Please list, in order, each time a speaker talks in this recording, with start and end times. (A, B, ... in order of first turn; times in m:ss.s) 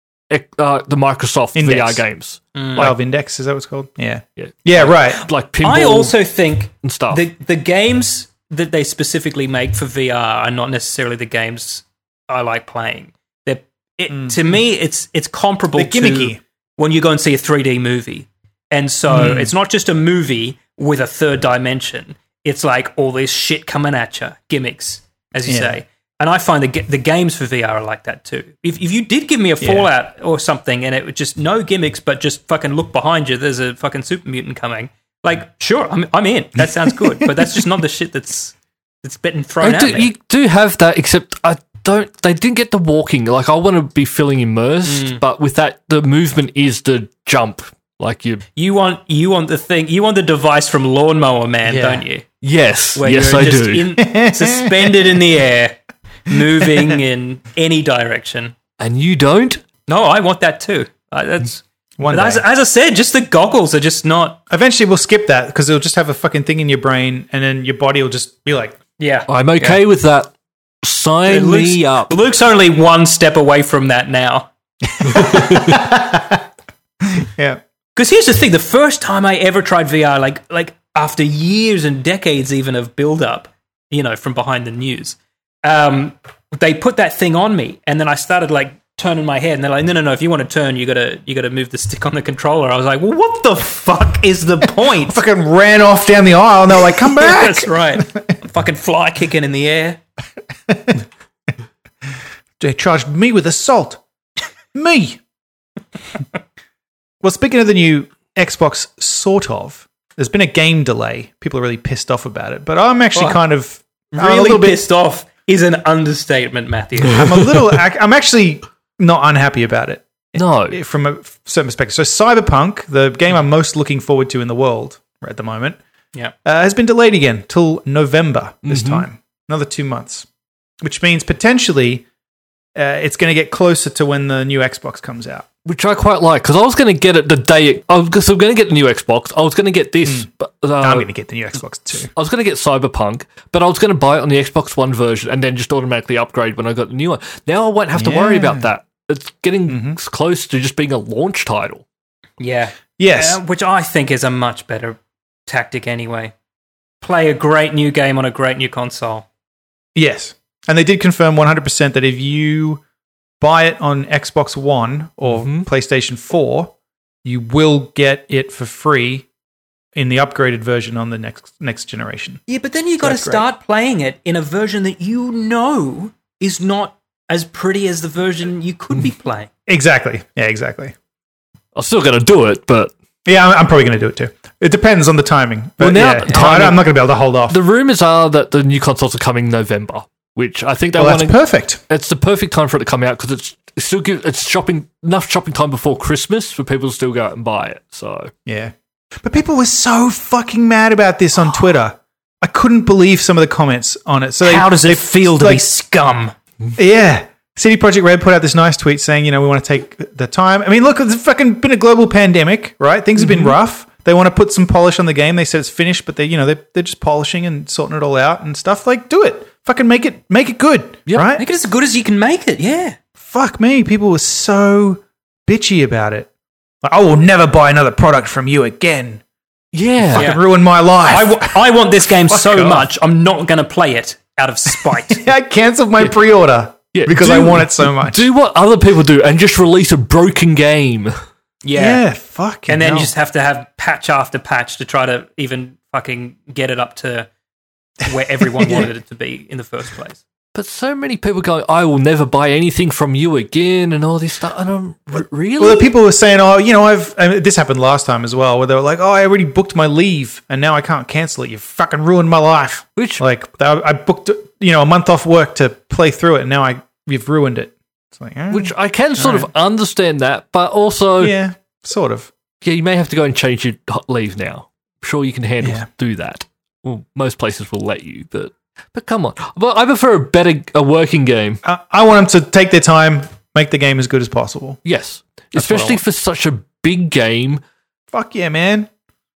0:00.3-0:02.9 A
0:01.6-0:02.0 B
0:02.6-0:02.9 C
0:02.8-0:05.3 B
0:04.4-0:06.2 A
0:05.6-0:40.1 C
0:06.8-0:07.2 A
0:14.1-0:14.4 B
0:15.8-0:16.4 B
0:19.1-0:19.5 B
0:25.5-0:25.8 B
0:29.6-0:29.9 B
0:39.6-0:48.4 A
0:44.8-0:45.2 C
0:48.6-0:52.3 C
0:51.7-0:52.0 B
0:52.4-0:53.9 A
0:53.0-0:58.6 C
0:54.0-0:55.2 B
0:58.8-0:59.6 A
0:59.9-1:04.4 C
1:02.0-1:02.4 B
1:04.5-1:08.8 B
1:09.0-1:09.8 C
1:09.3-1:12.1 A
1:11.3-1:14.5 C
1:15.0-1:16.4 B
1:15.1-1:15.8 A
1:17.0-1:17.6 B
1:18.0-1:35.2 C
1:35.0-1:38.0 B
1:36.9-1:40.0 C
1:40.7-1:41.0 B
1:42.6-1:44.0 B
1:44.7-1:45.2 B
1:47.2-1:54.8 B
1:53.2-1:53.4 C
1:54.1-1:57.5 C
1:57.2-2:05.8 B
2:00.4-2:00.8 A
2:06.4-2:10.3 B
2:08.7-2:09.1 A
2:10.8-2:12.0 B
2:12.8-2:15.5 B
2:15.6-2:21.1 A
2:20.8-2:22.1 B
2:22.1-2:31.8 A
2:28.0-2:28.7 B
2:29.7-2:30.0 B
2:32.4-2:36.3 C
2:33.0-2:33.4 B
2:37.0-2:39.3 C
2:40.0-2:42.8 B
2:43.4-2:46.7 B
2:45.3-2:45.7 A
2:47.2-2:49.3 B
2:50.0-2:52.4 B
2:52.5-2:59.5 C
2:53.0-2:53.4 B
2:59.7-3:01.0 B
3:01.8-3:02.9 A
3:03.3-3:07.6 B
3:05.8-3:06.9 A
3:07.5-3:18.3 A
3:11.0-3:11.8 B
3:18.5-3:25.6 B
3:24.4-3:26.3 C
3:26.8-3:41.4 B
3:33.2-3:33.5 A
3:41.4-3:43.0 C
3:43.2-3:46.3 B
3:46.8-3:49.2 B
3:49.7-3:50.3 A
3:50.0-3:52.9 B
3:50.2-3:50.4 C
3:51.0-3:55.3 C
3:55.1-3:58.3 B
3:56.9-4:01.2 A
4:01.6-4:02.0 C
4:01.8-4:03.1 B
4:02.7-4:07.3 C
4:08.0-4:10.2 C
4:08.6-4:08.9 B
4:10.6-4:15.9 A
4:15.6-4:29.5 B
4:23.0-4:23.2 A
4:28.5-4:31.4 A
4:31.2-4:32.3 B
4:32.6-4:41.6 A
4:35.6-4:35.9 B
4:41.6-4:44.8 B
4:44.8-4:47.6 A
4:45.5-4:46.0 B
4:48.1-4:48.9 B